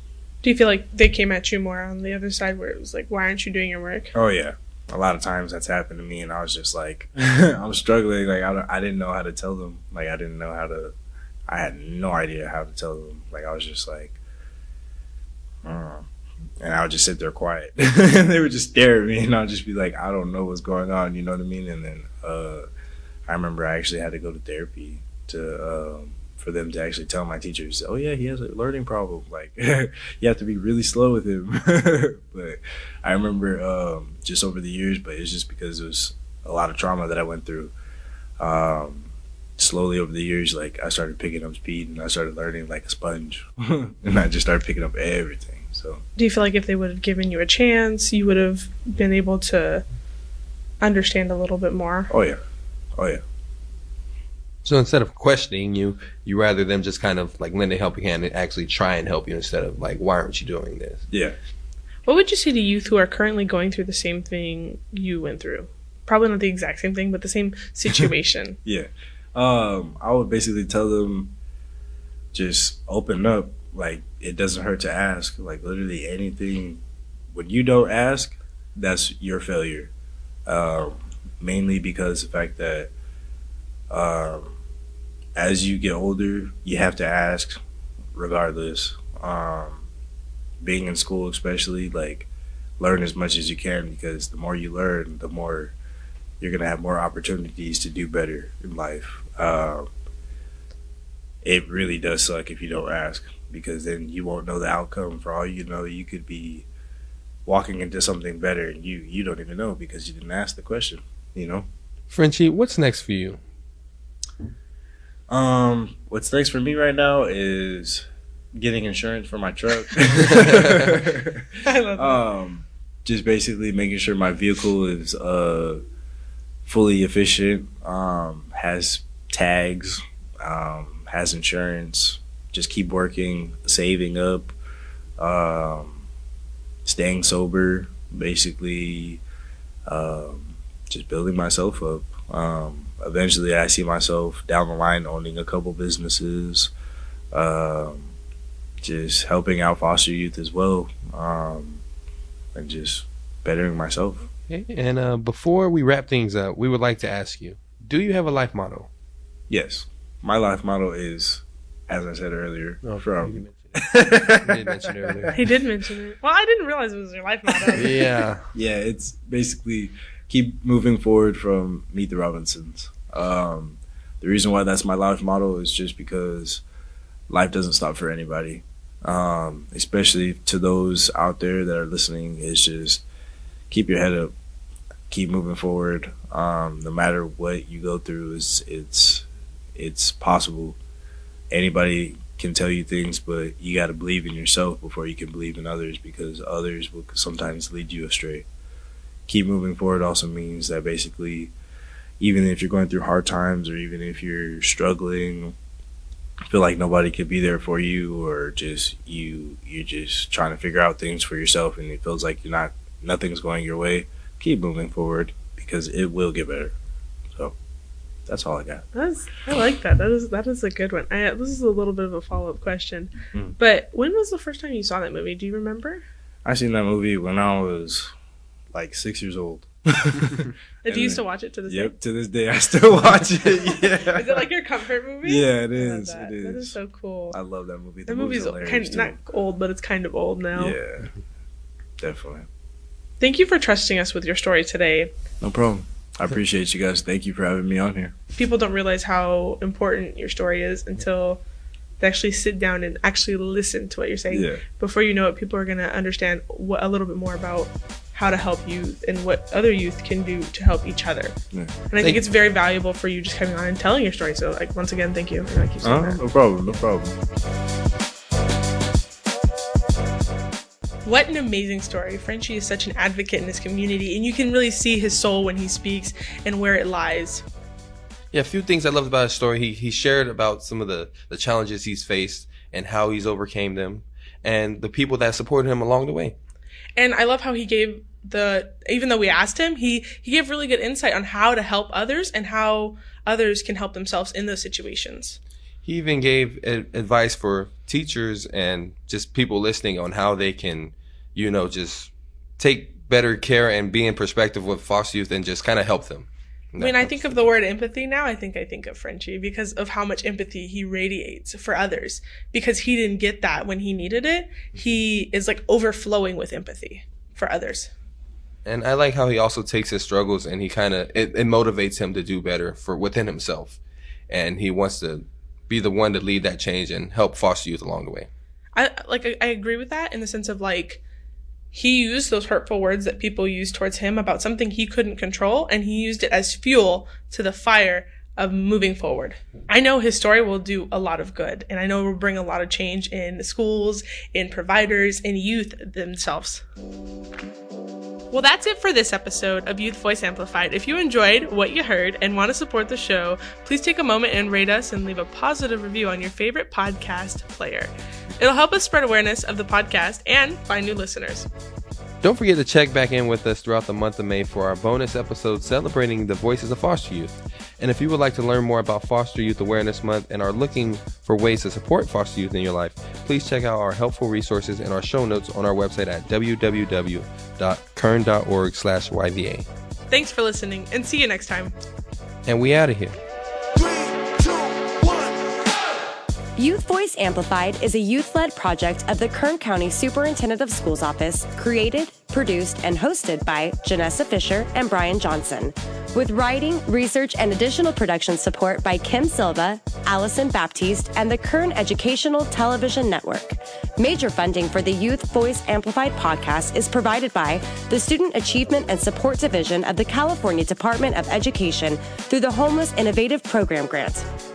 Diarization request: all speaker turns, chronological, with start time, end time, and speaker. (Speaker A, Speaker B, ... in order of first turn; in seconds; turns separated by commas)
Speaker A: 0.4-4.1, Speaker B: 4.1-10.9, Speaker B: 11.5-14.2, Speaker B: 15.6-16.1, Speaker B: 16.6-22.7, Speaker B: 23.3-37.7, Speaker B: 38.4-46.0, Speaker A: 46.2-49.8, Speaker A: 50.8-52.1, Speaker B: 52.1-52.4, Speaker B: 53.0-53.2, Speaker C: 54.6-61.0, Speaker B: 61.1-61.4, Speaker A: 62.1-68.6, Speaker B: 68.7-71.3, Speaker B: 72.3-76.8, Speaker B: 77.3-79.9, Speaker B: 80.5-82.9, Speaker B: 83.9-84.6, Speaker B: 85.4-87.6, Speaker B: 88.1-89.8, Speaker B: 90.6-92.3, Speaker B: 92.8-95.7, Speaker B: 96.4-99.9, Speaker B: 101.4-106.7, Speaker B: 107.5-111.7, Speaker C: 112.1-113.4, Speaker B: 115.3-118.1, Speaker B: 118.6-125.8, Speaker C: 120.3-120.8, Speaker A: 121.6-122.2, Speaker B: 126.6-134.5, Speaker B: 135.2-136.0, Speaker B: 136.8-139.2, Speaker B: 139.9-146.7, Speaker B: 147.3-148.1, Speaker B: 148.8-151.8, Speaker B: 152.6-154.3, Speaker C: 154.5-158.9, Speaker B: 159.5-163.4, Speaker C: 162.8-165.4, Speaker B: 163.9-165.3, Speaker A: 165.3-168.1, Speaker C: 167.8-168.5, Speaker B: 168.5-176.6, Speaker B: 177.3-183.0, Speaker B: 183.7-184.3, Speaker B: 185.1-190.8, Speaker B: 191.5-198.5, Speaker B: 199.3-201.5, Speaker B: 202.2-205.6, Speaker B: 206.5-216.8, Speaker B: 218.3-218.9, Speaker A: 218.9-226.0, Speaker B: 226.4-228.1, Speaker B: 228.7-234.5, Speaker A: 230.8-231.9, Speaker A: 233.4-237.4, Speaker B: 235.2-236.8, Speaker B: 237.3-239.2, Speaker A: 238.1-240.8, Speaker B: 240.6-241.1, Speaker B: 242.0-242.5, Speaker A: 243.2-245.1, Speaker B: 245.4-248.2, Speaker A: 248.3-251.4, Speaker A: 252.0-261.4, Speaker B: 254.3-254.6, Speaker A: 261.9-266.2, Speaker B: 265.8-267.2, Speaker A: 271.1-277.4, Speaker C: 278.3-286.4, Speaker A: 287.0-295.4, Speaker C: 295.8-307.4, Speaker A: 306.8-317.9, Speaker C: 318.6-328.3, Speaker A: 328.8-331.0, Speaker A: 331.7-346.6, Speaker A: 348.3-361.5, Speaker C: 362.2-379.7, Speaker A: 380.1-381.7, Speaker C: 382.5-383.2, Speaker D: 386.6-414.3